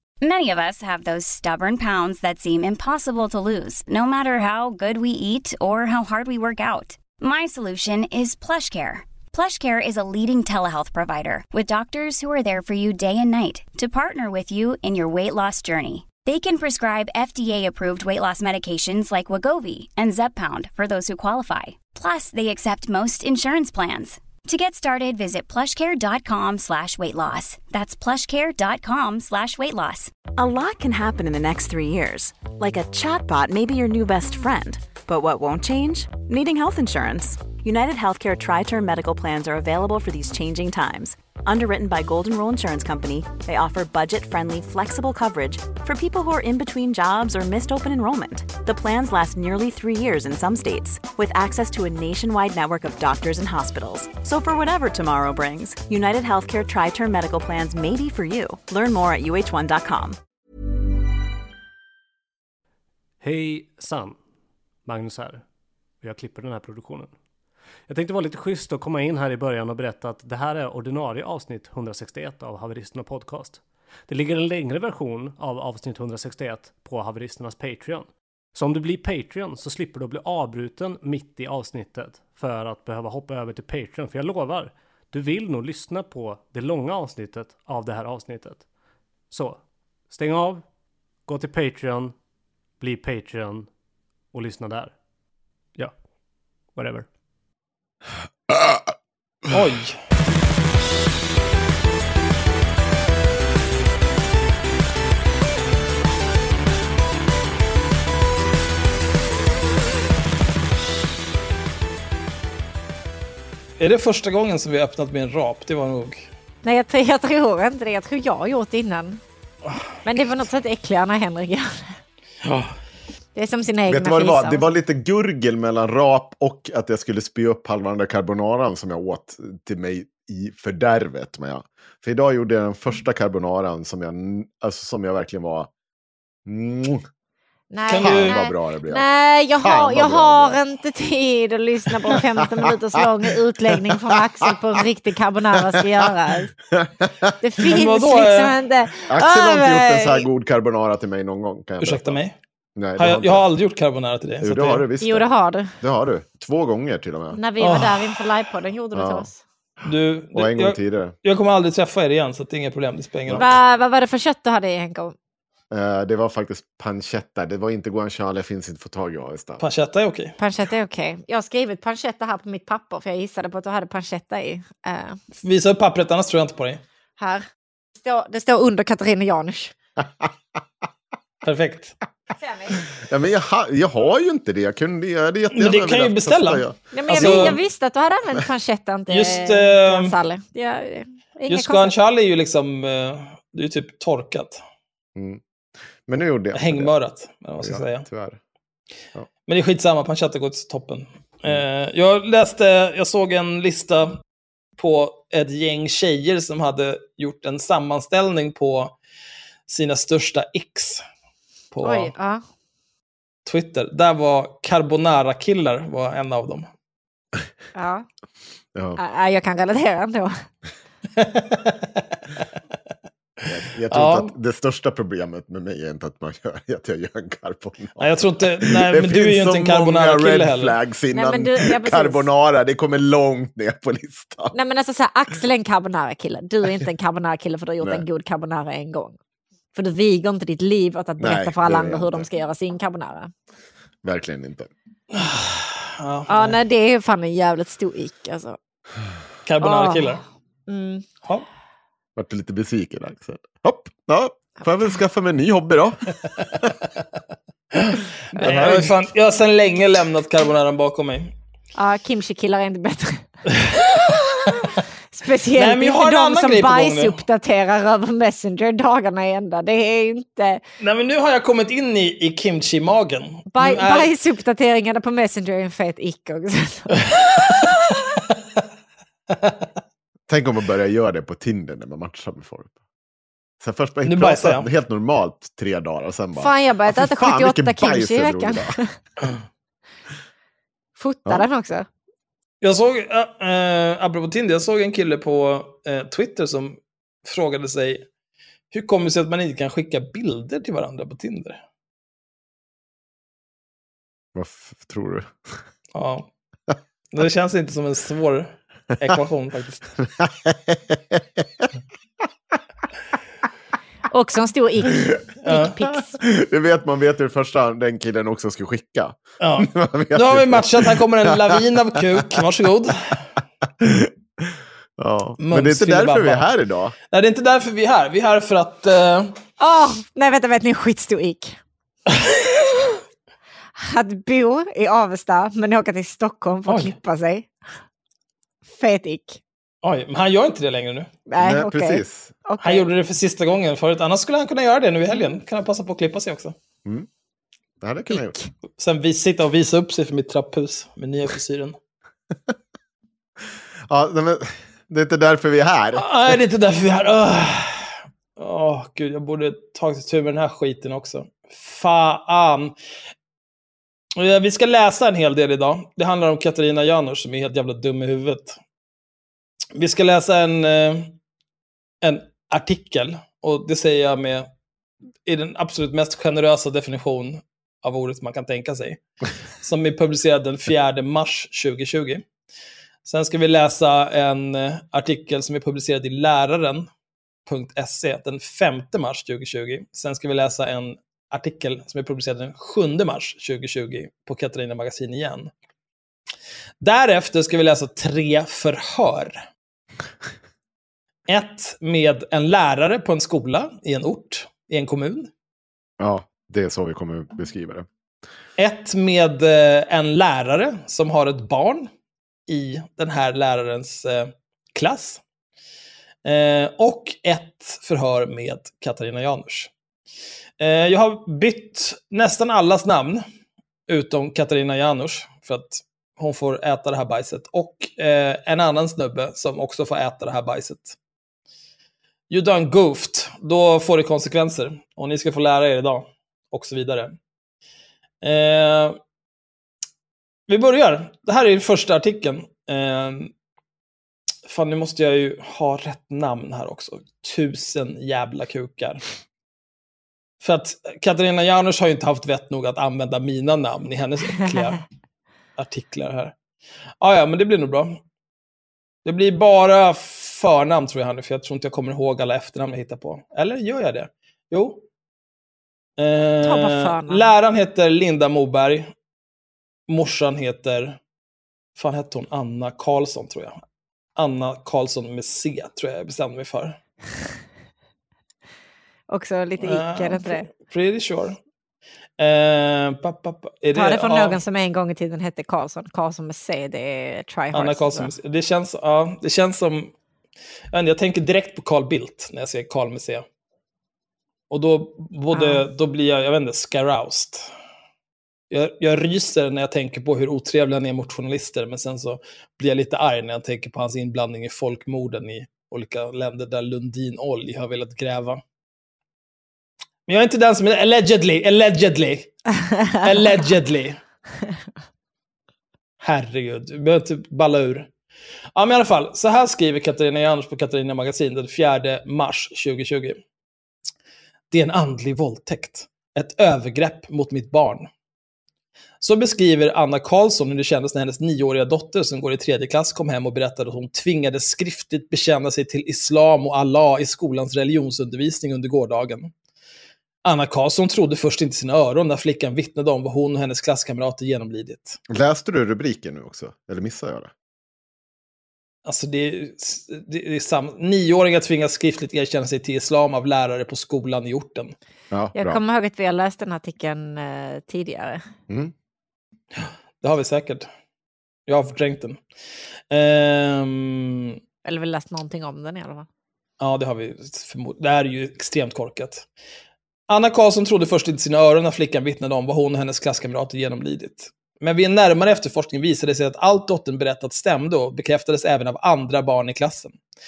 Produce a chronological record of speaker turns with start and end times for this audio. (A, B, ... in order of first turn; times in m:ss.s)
0:00.2-0:30.2 A
0:30.4-1:00.2 B
1:03.2-1:04.2 C
1:04.8-1:05.5 C
1:06.0-1:07.2 C
1:07.9-1:28.7 C
1:29.3-1:30.7 C
1:31.2-1:32.2 C
1:32.8-1:33.7 C
1:34.3-1:35.0 C
1:35.7-1:36.0 C
1:36.6-1:37.1 C
1:39.5-1:40.0 D
1:53.8-1:56.3 D
1:56.6-1:59.2 E
2:00.0-2:02.0 E
2:03.4-2:04.7 E
2:03.9-2:15.7 F
2:16.5-2:17.1 F
2:17.7-2:26.5 E
2:17.9-2:18.4 D
2:18.0-2:20.6 F
2:22.5-2:23.3 F
2:26.7-2:27.8 F
2:27.4-2:30.3 E
2:27.6-2:28.6 D
2:29.1-2:32.2 F
2:31.8-2:32.4 D
2:32.8-2:33.5 F
2:33.0-2:34.9 D
2:34.4-2:35.3 F
2:35.0-2:35.8 E
2:35.8-2:37.4 F
2:37.3-2:39.4 E
2:37.6-2:38.2 D
2:38.9-2:39.3 F
2:39.9-2:43.6 D
2:40.3-2:41.2 F
2:43.3-2:43.6 F
2:43.3-2:45.2 E
2:45.7-2:49.6 F
2:49.6-2:50.4 D
2:50.4-2:55.2 E
2:55.4-2:56.8 D
2:57.2-2:57.5 E
2:58.0-2:59.7 E
3:01.4-3:02.0 D
3:02.4-3:02.9 E
3:03.0-3:07.6 F
3:05.5-3:07.6 D
3:06.9-3:11.9 E
3:09.1-3:10.1 D
3:11.5-3:14.6 D
3:15.2-3:15.4 F
3:16.1-3:16.9 F
3:16.5-3:18.1 D
3:17.6-3:18.4 F
3:19.5-3:24.2 D
3:24.8-3:28.9 D
3:29.7-3:31.0 D
3:31.7-3:32.1 D
3:31.8-3:32.4 E
3:33.5-3:36.7 D
3:37.8-3:38.1 E
3:38.8-3:39.0 F
3:39.0-3:40.4 E
3:41.2-3:42.0 D
3:43.4-3:54.6 F
3:43.9-3:44.3 D
3:48.0-3:50.8 D
3:51.1-3:52.3 E
3:54.5-3:59.2 E
3:59.7-4:03.3 E
4:01.2-4:02.3 F
4:04.0-4:04.7 F
4:05.1-4:06.6 D
4:06.3-4:08.6 E
4:09.4-4:10.2 D
4:09.6-4:11.1 E
4:12.2-4:16.7 F
4:17.7-4:21.3 D
4:18.4-4:18.9 F
4:21.8-4:23.3 E
4:23.6-4:24.6 D
4:24.6-4:30.6 E
4:25.6-4:27.2 D
4:30.8-4:34.1 D
4:33.5-4:37.0 E
4:37.0-4:37.5 D
4:40.3-4:42.7 F
4:43.6-4:48.8 F
4:44.0-4:44.7 D
4:46.4-4:49.0 E
4:51.0-4:51.9 E
4:52.6-4:58.1 D
4:58.7-5:01.6 D
5:04.4-5:05.3 F
5:06.0-5:06.3 D
5:07.1-5:09.9 D
5:10.2-5:11.7 F
5:14.1-5:16.2 E
5:15.5-5:15.7 D
5:16.1-5:21.6 F
5:19.4-5:23.2 D
5:23.8-5:27.0 F
5:25.4-5:26.5 D
5:27.1-5:29.4 D
5:29.6-5:31.6 E
5:33.8-5:37.5 E
5:36.7-5:36.9 D
5:38.7-5:39.4 E
5:39.8-5:41.1 D
5:41.3-5:42.9 E
5:41.4-5:42.4 F
5:42.6-5:46.6 D
5:47.8-5:48.4 F
5:48.1-5:48.5 E
5:48.8-5:51.8 D
5:53.9-5:56.4 F
5:56.0-6:02.8 D
6:04.2-6:08.6 D
6:09.8-6:11.2 D
6:12.0-6:14.5 D
6:15.3-6:19.0 D
6:19.6-6:22.2 D
6:23.1-6:26.9 D
6:27.5-6:35.5 D
6:36.8-6:39.4 D
6:41.3-6:45.3 D
6:46.0-6:47.9 F
6:48.6-6:51.9 D
6:52.5-6:55.2 D
6:56.2-6:59.7 D
7:00.6-7:03.2 D
7:03.9-7:11.0 D
7:12.3-7:17.2 D
7:18.2-7:19.0 D
7:20.5-7:23.3 D
7:24.5-7:29.0 D
7:30.4-7:34.8 D
7:35.6-7:36.4 D
7:37.0-7:38.0 D
7:39.0-7:44.8 D
7:46.0-7:48.9 D
7:46.4-7:47.3 E
7:49.9-7:51.0 D
7:51.8-7:53.6 D
7:54.2-7:56.8 D
7:59.1-8:00.5 E
7:59.6-8:01.4 D
8:02.2-8:04.4 D
8:03.8-8:08.1 E
8:07.5-8:09.9 D
8:10.7-8:13.2 D
8:14.5-8:17.5 D
8:15.3-8:15.6 E
8:18.5-8:28.4 D
8:30.1-8:32.4 D
8:33.0-8:34.0 D
8:36.0-8:37.9 D
8:38.6-8:43.2 D
8:44.5-8:47.9 D
8:49.0-8:59.3 D
9:00.2-9:05.0 D
9:05.1-9:07.3 F
9:08.8-9:14.7 D
9:15.1-9:15.6 F
9:15.4-9:18.3 E
9:19.6-9:20.7 D
9:21.5-9:22.2 D
9:22.9-9:24.4 D
9:24.6-9:26.1 E
9:26.6-9:29.2 D
9:30.1-9:40.0 D